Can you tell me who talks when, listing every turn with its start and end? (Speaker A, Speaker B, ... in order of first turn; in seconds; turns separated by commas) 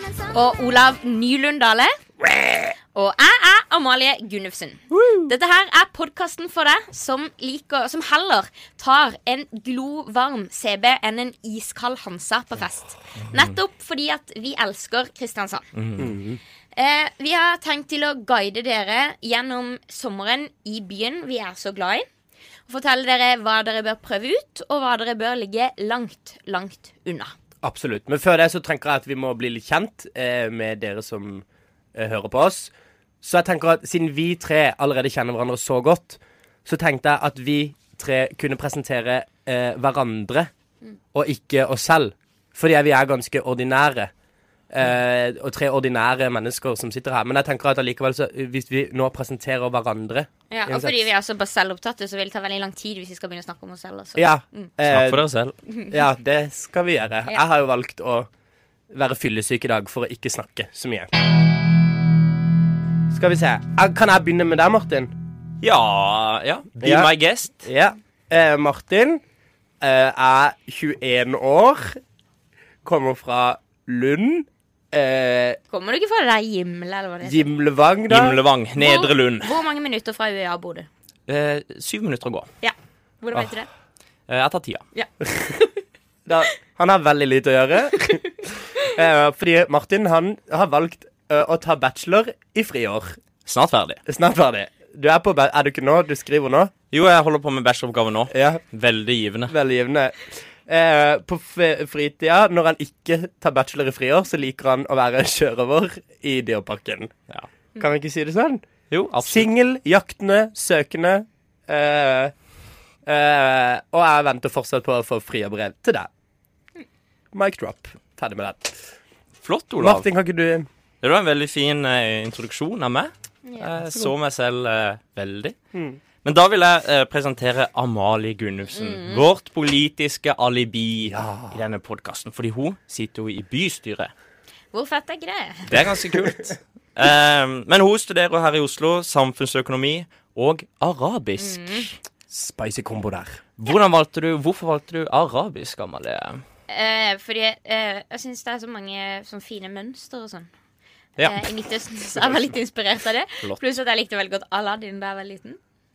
Speaker A: 0.3-1.9, Speaker B: 2.2-2.7, Speaker A: 2.9-15.7, Speaker B: 4.9-5.3, Speaker C: 15.7-16.1, Speaker B: 16.0-16.4, Speaker A: 16.7-22.1, Speaker A: 22.7-27.3, Speaker B: 27.6-32.7, Speaker B: 33.2-40.5, Speaker B: 41.1-44.1, Speaker B: 44.7-51.0, Speaker A: 50.5-54.7, Speaker B: 54.1-55.2, Speaker C: 54.9-55.5, Speaker B: 55.9-58.3, Speaker B: 58.9-61.1, Speaker B: 63.1-65.1, Speaker C: 65.6-67.7, Speaker B: 66.8-67.1, Speaker B: 67.6-69.2, Speaker B: 69.8-72.0, Speaker B: 72.8-75.6, Speaker A: 75.7-77.5, Speaker B: 77.2-78.4, Speaker C: 78.1-79.5, Speaker A: 78.8-80.9, Speaker C: 81.3-82.5, Speaker A: 82.6-83.7, Speaker C: 84.3-84.8, Speaker A: 84.9-85.7, Speaker B: 86.2-93.2, Speaker C: 93.5-94.0, Speaker B: 94.0-96.7, Speaker C: 96.9-99.5, Speaker B: 98.3-98.6, Speaker B: 99.5-107.1, Speaker B: 107.8-108.6, Speaker C: 108.9-109.5, Speaker B: 109.2-112.3, Speaker B: 113.0-116.1, Speaker B: 117.3-118.8, Speaker C: 119.4-120.0, Speaker B: 119.8-120.7, Speaker C: 121.0-125.5, Speaker A: 123.4-123.8, Speaker B: 125.7-126.0, Speaker C: 126.2-134.1, Speaker A: 128.7-129.2, Speaker B: 131.1-131.6, Speaker A: 134.7-135.7, Speaker C: 135.7-141.9, Speaker A: 141.4-141.9, Speaker B: 142.3-143.4, Speaker C: 143.6-146.4, Speaker A: 146.7-150.5, Speaker C: 151.2-151.4, Speaker A: 151.2-155.6